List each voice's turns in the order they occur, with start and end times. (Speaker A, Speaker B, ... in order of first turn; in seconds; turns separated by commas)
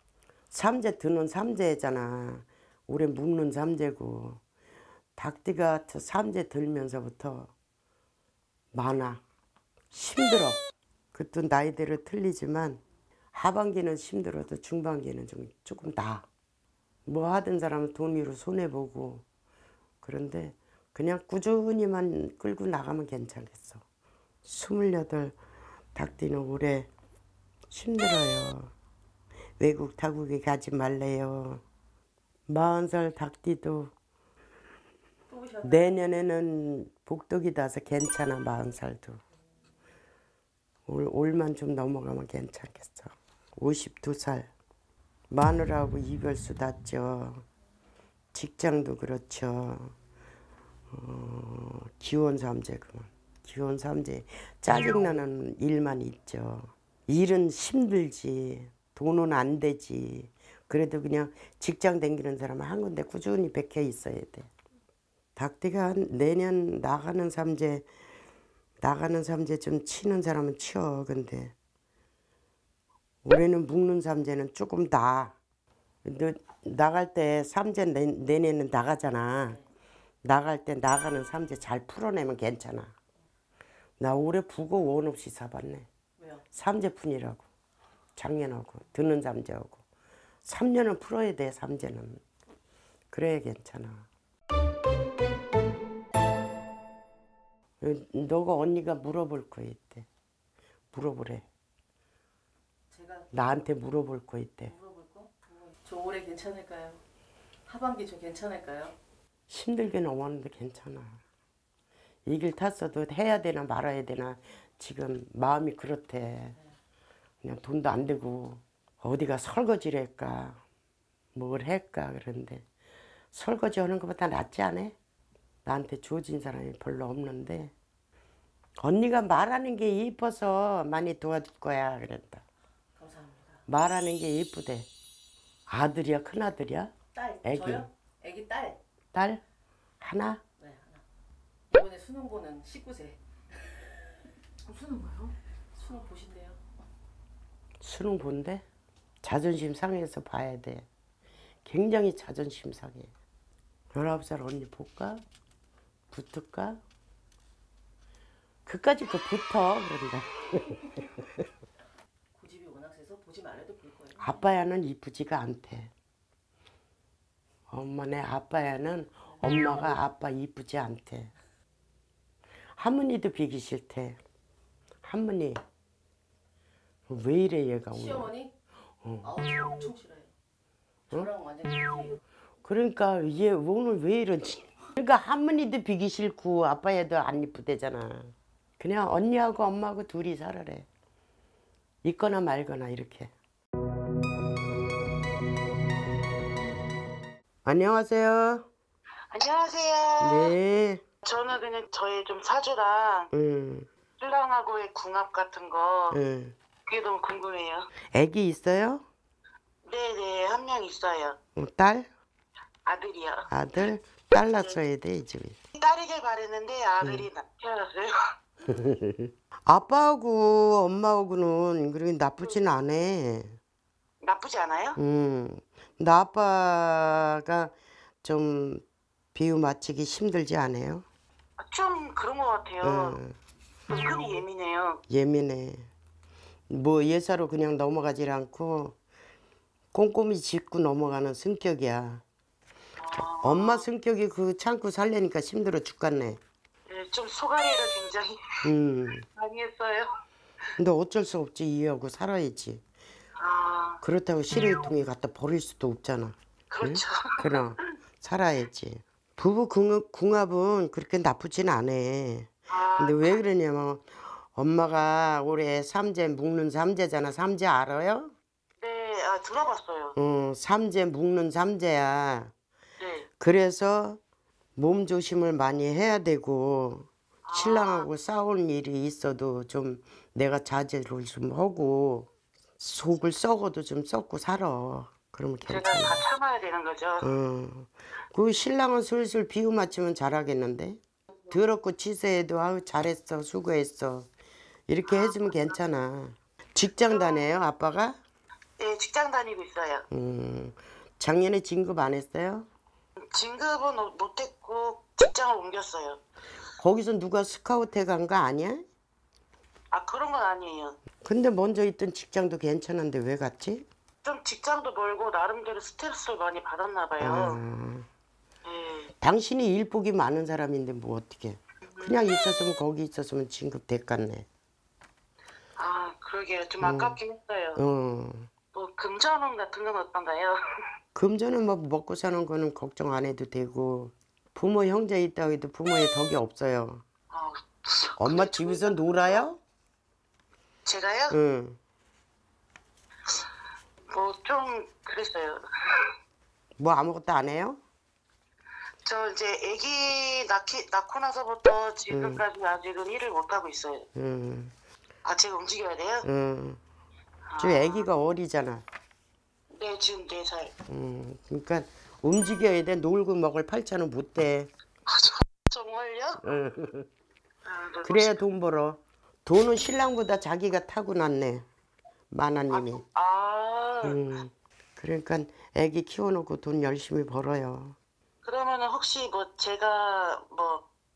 Speaker A: 0.5-4.4, Speaker A: 5.2-7.5, Speaker A: 8.7-9.2, Speaker A: 9.9-10.6, Speaker A: 11.1-12.8, Speaker A: 13.3-16.3, Speaker A: 17.1-19.2, Speaker A: 20.0-23.8, Speaker A: 24.4-25.4, Speaker A: 25.9-26.9, Speaker A: 27.7-28.7, Speaker A: 29.6-31.6, Speaker A: 32.5-33.9, Speaker B: 35.3-35.9, Speaker A: 35.6-39.2, Speaker A: 40.9-44.5, Speaker A: 45.3-47.5, Speaker A: 48.3-50.0, Speaker A: 50.9-64.5, Speaker A: 65.4-67.9, Speaker A: 68.8-71.5, Speaker A: 73.2-75.4, Speaker A: 76.0-79.6, Speaker A: 80.2-82.9, Speaker A: 84.0-85.9, Speaker B: 86.2-86.4, Speaker A: 86.5-87.5, Speaker A: 88.2-89.8, Speaker A: 90.5-92.2, Speaker A: 93.1-94.1, Speaker A: 97.8-100.1, Speaker A: 100.9-101.5, Speaker B: 102.9-103.3, Speaker A: 103.3-104.7, Speaker B: 104.7-107.0, Speaker B: 107.7-109.0, Speaker A: 109.5-111.2, Speaker A: 112.3-116.6, Speaker A: 117.4-120.6, Speaker A: 121.3-122.7, Speaker A: 123.3-125.0, Speaker A: 125.7-127.7, Speaker A: 128.8-132.4, Speaker B: 133.0-133.6, Speaker A: 133.7-134.9, Speaker A: 135.7-137.9, Speaker B: 137.2-138.8, Speaker A: 139.1-139.4, Speaker A: 140.0-140.4, Speaker B: 140.6-141.0, Speaker B: 141.7-146.6, Speaker A: 147.8-148.7, Speaker A: 149.2-150.9, Speaker A: 151.7-153.1, Speaker A: 153.9-155.2, Speaker A: 156.1-156.8, Speaker A: 158.7-161.1, Speaker B: 162.3-164.4, Speaker A: 164.2-165.9, Speaker A: 167.7-171.3, Speaker A: 172.8-174.2, Speaker A: 175.0-175.6, Speaker A: 177.1-178.3, Speaker B: 177.9-178.5, Speaker A: 179.0-179.3, Speaker B: 179.2-180.3, Speaker B: 181.1-182.2, Speaker A: 182.6-190.9, Speaker A: 192.0-193.3, Speaker A: 197.7-198.7, Speaker C: 199.3-200.6, Speaker A: 200.2-201.0, Speaker C: 201.2-203.3, Speaker A: 203.3-203.9, Speaker C: 204.2-206.2, Speaker A: 206.1-206.6, Speaker C: 206.9-207.9, Speaker A: 208.1-209.1, Speaker C: 209.8-211.4, Speaker A: 211.6-212.1, Speaker C: 212.8-213.5, Speaker A: 213.5-215.6, Speaker C: 214.4-214.8, Speaker C: 215.8-218.2, Speaker A: 217.0-217.3, Speaker A: 218.7-223.6, Speaker C: 224.2-225.0, Speaker A: 225.0-231.1, Speaker C: 231.6-233.2, Speaker A: 232.8-233.4, Speaker C: 233.9-235.0, Speaker A: 235.1-235.9, Speaker A: 236.7-239.0, Speaker A: 239.9-242.2, Speaker C: 243.0-243.9, Speaker A: 243.4-246.4, Speaker C: 246.9-248.4, Speaker A: 248.6-249.3, Speaker C: 249.4-250.1, Speaker A: 250.8-252.8, Speaker C: 253.4-254.0, Speaker A: 254.0-268.3, Speaker C: 256.7-257.6, Speaker C: 262.7-263.4, Speaker C: 268.8-270.2, Speaker A: 270.2-272.5, Speaker C: 273.0-273.3, Speaker A: 273.4-274.2, Speaker A: 274.8-286.2, Speaker C: 277.5-278.1, Speaker C: 285.7-287.3, Speaker A: 287.2-294.3, Speaker A: 294.9-298.2, Speaker C: 295.1-295.7, Speaker C: 297.1-297.5, Speaker C: 298.8-300.1, Speaker A: 300.1-302.7, Speaker C: 303.3-306.2, Speaker A: 306.8-308.9, Speaker C: 309.9-311.0, Speaker A: 311.2-313.9, Speaker C: 314.2-317.6, Speaker A: 317.2-318.1, Speaker C: 318.6-319.1, Speaker A: 319.2-324.5, Speaker C: 321.9-322.5, Speaker C: 325.8-327.8, Speaker A: 326.8-327.2, Speaker A: 327.8-328.5, Speaker C: 328.7-330.6, Speaker A: 331.1-337.1, Speaker C: 337.3-339.5, Speaker A: 338.2-339.6, Speaker C: 340.9-341.4, Speaker A: 341.3-341.8, Speaker C: 344.1-346.1, Speaker A: 346.8-347.8, Speaker C: 349.1-354.1, Speaker A: 352.1-352.4, Speaker A: 354.1-354.7, Speaker C: 355.2-356.3, Speaker A: 356.2-356.8, Speaker C: 357.5-358.1, Speaker A: 357.6-358.8, Speaker C: 359.7-360.7, Speaker A: 360.9-364.7, Speaker C: 365.1-366.5, Speaker A: 366.4-367.1, Speaker C: 367.7-368.4, Speaker A: 368.0-371.7, Speaker A: 372.3-373.0, Speaker C: 372.7-374.2, Speaker A: 374.0-378.0, Speaker C: 378.4-380.9